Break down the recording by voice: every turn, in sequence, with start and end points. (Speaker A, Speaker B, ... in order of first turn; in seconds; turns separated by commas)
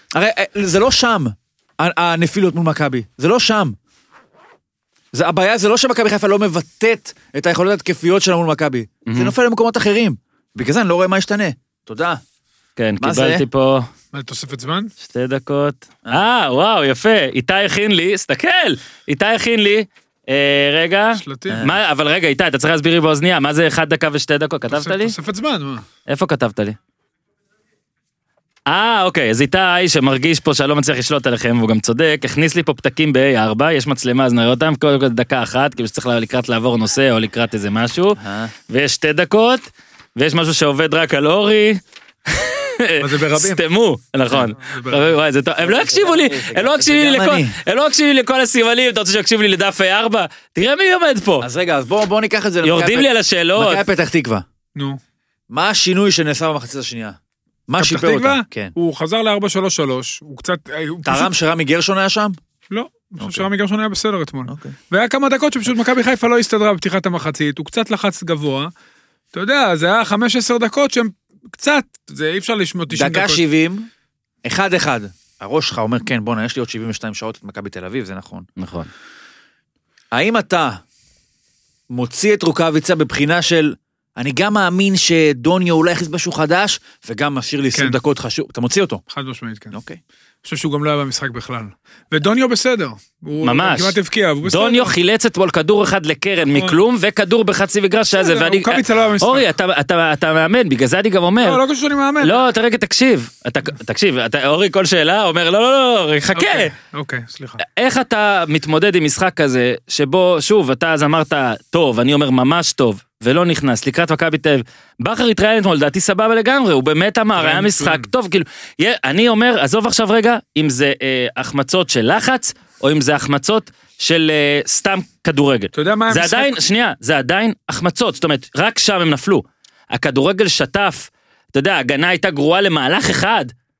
Speaker A: 0.1-3.8, Speaker A: 5.1-12.2, Speaker B: 9.1-9.3, Speaker B: 12.8-13.9, Speaker A: 13.0-13.4, Speaker C: 14.1-14.9, Speaker B: 15.0-25.1, Speaker C: 21.2-21.6, Speaker A: 21.5-21.8, Speaker C: 24.7-25.9, Speaker B: 26.1-26.8, Speaker B: 28.7-51.5, Speaker A: 38.2-38.5, Speaker C: 43.0-43.6, Speaker C: 44.5-45.2, Speaker A: 45.6-47.6, Speaker A: 51.4-54.5, Speaker B: 52.6-53.8, Speaker C: 54.8-55.0, Speaker A: 55.5-57.2, Speaker A: 57.7-58.7, Speaker C: 57.8-61.3, Speaker A: 61.0-62.4, Speaker C: 62.7-68.7, Speaker A: 63.2-63.5, Speaker A: 64.5-64.8, Speaker C: 69.3-73.4, Speaker A: 72.9-73.9, Speaker A: 74.4-78.5, Speaker B: 78.6-78.9, Speaker A: 80.1-80.8, Speaker A: 81.9-89.0, Speaker C: 89.1-89.8, Speaker A: 89.7-90.0, Speaker C: 90.5-95.0, Speaker B: 93.4-101.6, Speaker C: 96.5-96.8, Speaker C: 98.1-99.5, Speaker C: 101.4-102.5, Speaker B: 102.2-106.7, Speaker C: 106.3-107.6, Speaker B: 107.6-133.5, Speaker C: 117.4-118.1, Speaker C: 125.7-126.6